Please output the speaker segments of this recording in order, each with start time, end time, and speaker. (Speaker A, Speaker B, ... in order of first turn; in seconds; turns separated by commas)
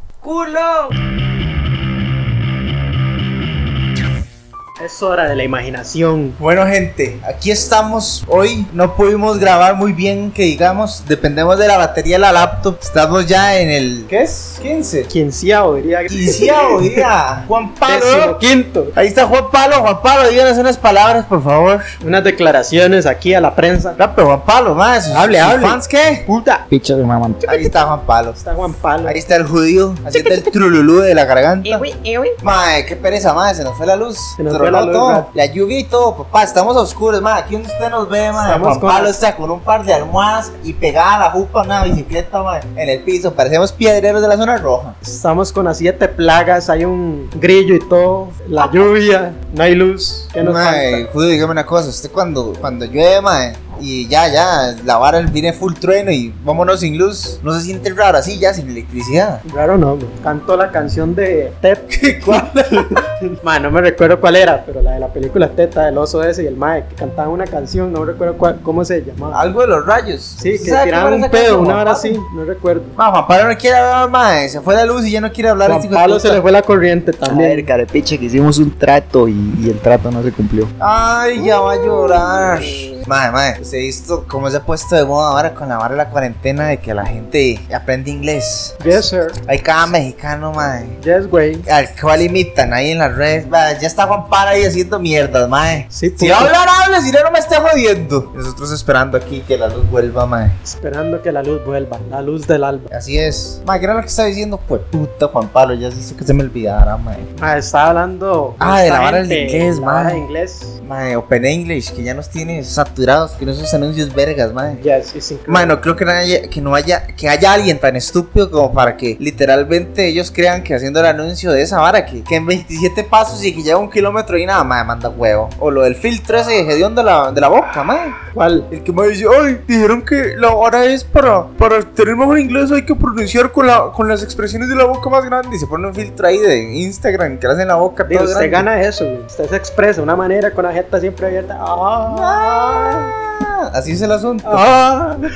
Speaker A: 0.2-0.9, Speaker B: 4.8-6.4, Speaker A: 6.4-15.1, Speaker B: 15.1-17.0, Speaker A: 16.1-18.4, Speaker B: 17.9-18.9, Speaker A: 18.9-21.9, Speaker B: 22.0-24.0, Speaker A: 24.0-26.2, Speaker B: 25.1-26.7, Speaker C: 26.7-27.6, Speaker A: 27.4-28.4, Speaker B: 28.4-29.2, Speaker A: 29.1-31.9, Speaker A: 32.4-45.0, Speaker B: 34.4-35.3, Speaker B: 38.4-39.2, Speaker B: 45.0-51.0, Speaker A: 48.6-48.8, Speaker A: 50.4-59.4, Speaker B: 59.4-69.4, Speaker A: 62.0-63.0, Speaker A: 69.3-72.2, Speaker B: 70.4-72.9, Speaker A: 73.0-76.4, Speaker B: 75.6-77.7, Speaker C: 77.2-80.7, Speaker A: 80.8-91.0, Speaker B: 88.8-89.4, Speaker B: 91.0-91.7, Speaker A: 91.7-100.6, Speaker B: 95.9-96.5, Speaker B: 100.6-102.9, Speaker A: 102.9-107.2, Speaker B: 107.3-110.7, Speaker A: 108.6-110.2, Speaker A: 110.8-114.8, Speaker B: 114.8-115.8, Speaker A: 115.5-138.7, Speaker B: 128.3-128.7, Speaker B: 138.1-142.8, Speaker A: 142.1-144.7, Speaker B: 144.4-145.2